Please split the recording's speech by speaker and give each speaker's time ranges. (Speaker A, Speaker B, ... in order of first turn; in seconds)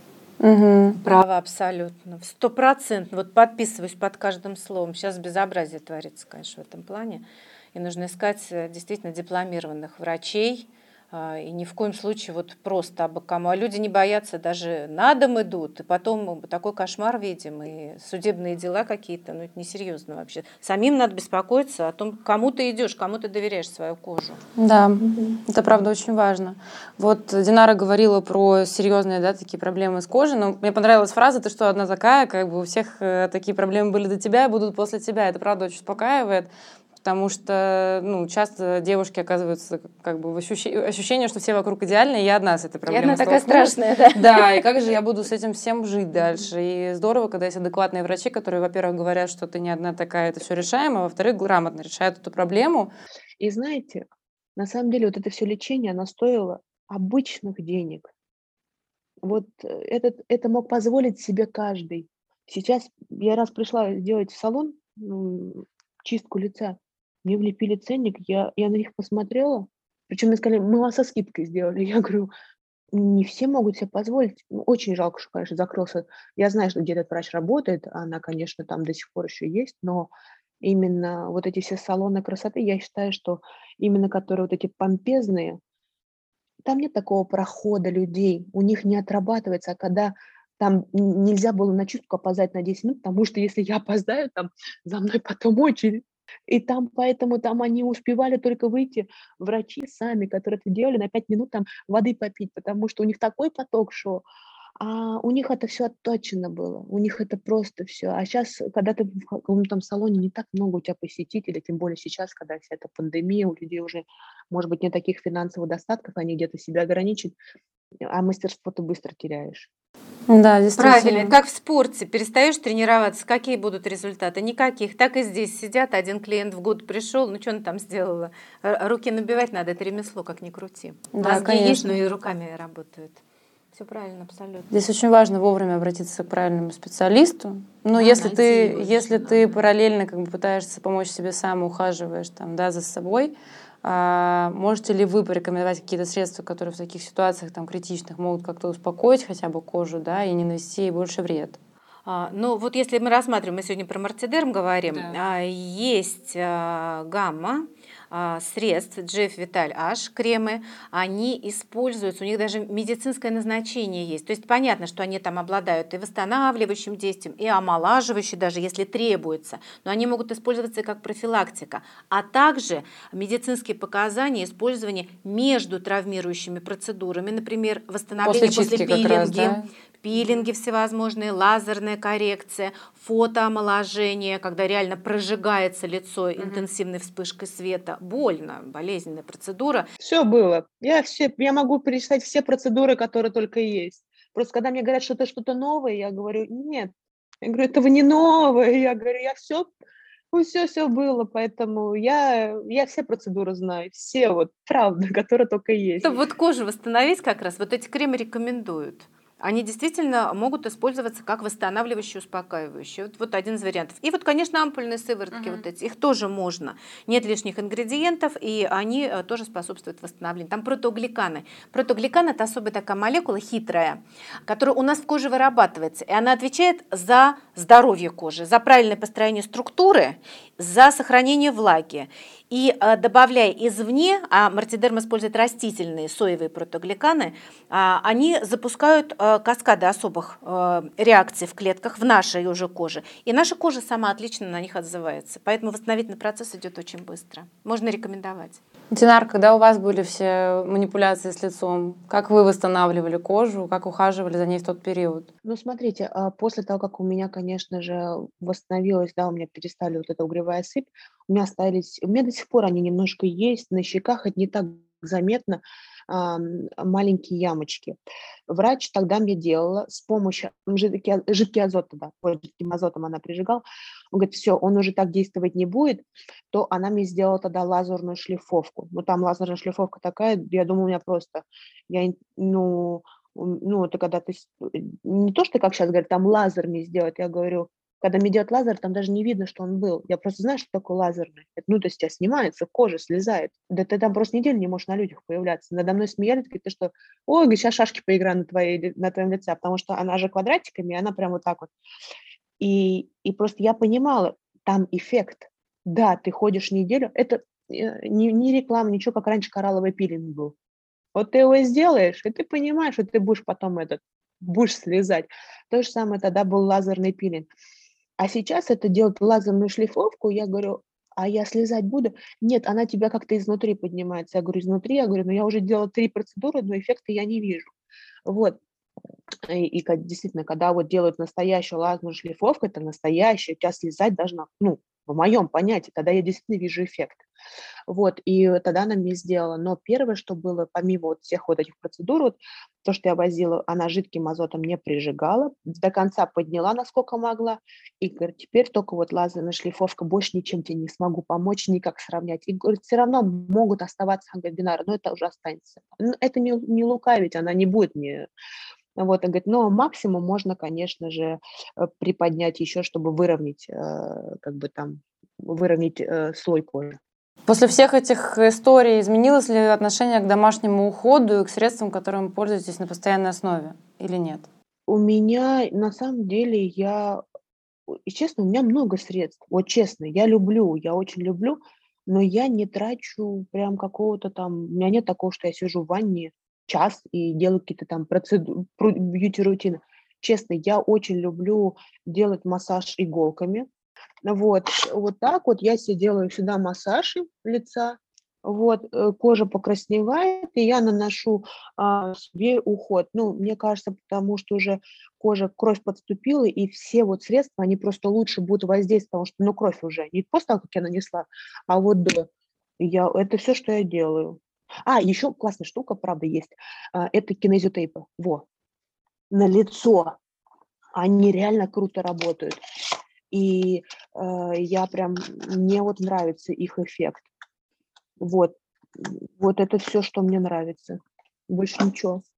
Speaker A: 0.4-1.0, 24.6-36.5, 37.0-52.9, 120.3-121.3, 131.1-132.0, 134.7-151.6, 178.2-180.4, 186.4-186.7, 215.3-215.6, 248.9-255.3, 367.5-374.5
Speaker B: 1.0-24.4, 42.9-44.6, 120.8-133.2, 133.7-134.7, 137.9-139.6, 152.1-189.9, 206.0-248.6
Speaker C: 53.4-54.0, 54.5-58.1, 59.2-72.3, 72.9-80.1, 80.6-85.6, 86.6-104.2, 104.8-117.3, 118.0-119.7, 190.0-196.9, 197.4-199.7, 200.3-206.2, 255.4-301.7, 302.6-310.6, 311.1-317.5, 318.2-327.7, 328.2-328.6, 329.5-337.2, 337.9-358.3, 358.9-367.0, 374.9-377.2, 377.9-393.7, 394.2-418.4, 419.3-420.1, 420.9-422.6, 423.3-427.2, 428.2-432.2